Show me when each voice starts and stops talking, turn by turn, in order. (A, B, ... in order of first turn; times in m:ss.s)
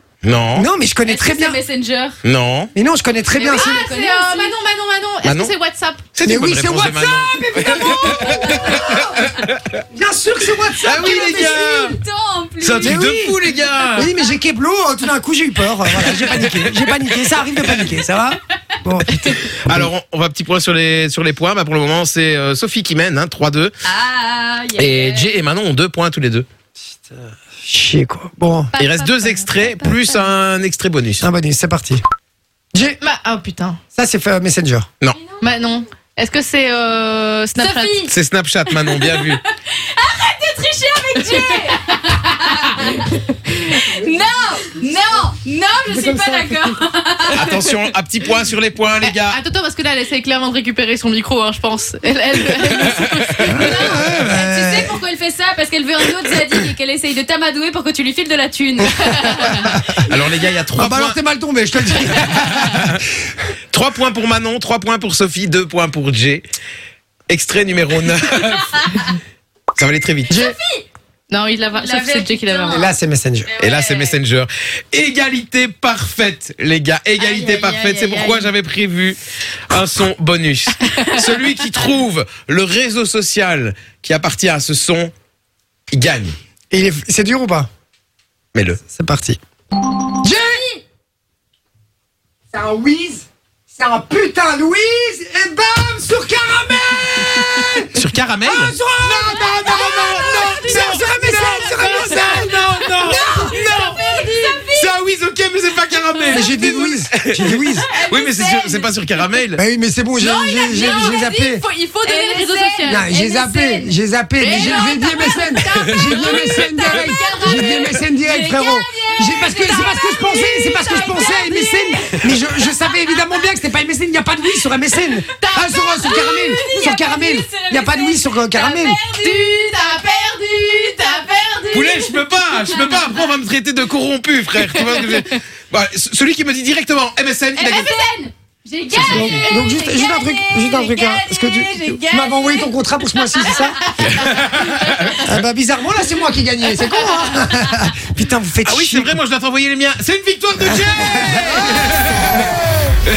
0:00.2-0:00.7 A
0:00.6-0:01.6 B
0:01.0-0:02.2 C
0:02.2-0:02.7 A
0:02.7-0:03.8 B
0:03.3-0:04.5 C
0:03.4-0:06.1 D
0:05.2-0:05.5 A
0:06.1-0:09.5 A
0:06.2-0:09.4 B
0:09.9-0:11.6 B
0:10.8-0:12.0 A
0:10.9-0:13.0 C
0:12.6-0:14.1 A
0:12.8-0:13.4 B
0:13.9-0:19.9 B
0:19.6-0:23.7 A
0:23.8-0:25.4 C
0:24.8-0:26.4 A
0:27.0-0:28.7 B
0:28.7-0:30.2 C
0:28.8-0:31.3 A
0:31.2-0:32.0 B
0:32.7-0:33.0 B
0:33.0-0:33.8 D
0:33.9-0:34.9 B
0:35.2-0:35.6 C
0:35.4-0:38.1 D
0:37.6-0:38.1 C
0:38.1-0:39.4 A
0:38.8-0:47.6 C
0:41.2-0:42.0 D
0:45.8-0:46.8 B
0:47.3-0:49.4 A
0:49.0-0:54.0 D
0:53.4-0:55.0 B
0:53.5-0:59.6 C
0:58.8-1:00.2 B
0:59.4-0:59.8 D
0:59.9-1:01.2 A
1:00.7-1:03.0 B
1:02.5-1:02.9 A
1:03.7-1:06.4 A
1:07.3-1:09.1 A
1:09.8-1:10.3 A
1:10.3-1:10.8 C
1:10.3-1:10.6 B
1:11.3-1:12.9 D
1:11.7-1:12.9 C
1:12.7-1:13.5 B
1:13.5-1:14.2 C
1:13.6-1:19.2 A
1:17.2-1:18.5 C
1:19.7-1:25.1 A
1:20.9-1:21.2 D
1:25.9-1:26.3 A
1:26.7-1:27.7 B
1:28.5-1:28.8 A
1:28.8-1:29.4 B
1:30.2-1:30.6 B
1:32.5-1:43.6 B
1:37.9-1:49.6 A
1:39.6-1:42.4 D
1:39.7-1:40.5 C
1:43.1-1:44.9 C
1:43.5-1:44.5 D
1:46.3-1:47.9 B
1:47.9-1:48.9 C
1:49.6-1:51.6 B
1:50.2-1:53.1 D
1:52.0-1:53.9 C
1:52.8-2:09.0 B
1:54.4-1:57.8 D
1:54.5-1:55.5 C
1:56.0-2:03.2 C
1:56.1-1:57.0 A
2:05.3-2:06.6 D
2:06.0-2:10.2 C
2:09.1-2:12.0 D
2:11.0-2:13.3 C
2:11.7-2:17.9 A
2:14.6-2:15.3 D
2:17.5-2:22.7 C
2:17.6-2:18.3 D
2:18.9-2:19.8 D
2:19.0-2:23.8 B
2:23.4-2:24.0 C
2:23.4-2:24.7 D
2:24.0-2:25.2 A
2:25.1-2:29.2 B
2:28.6-2:32.5 A
2:30.7-2:31.9 B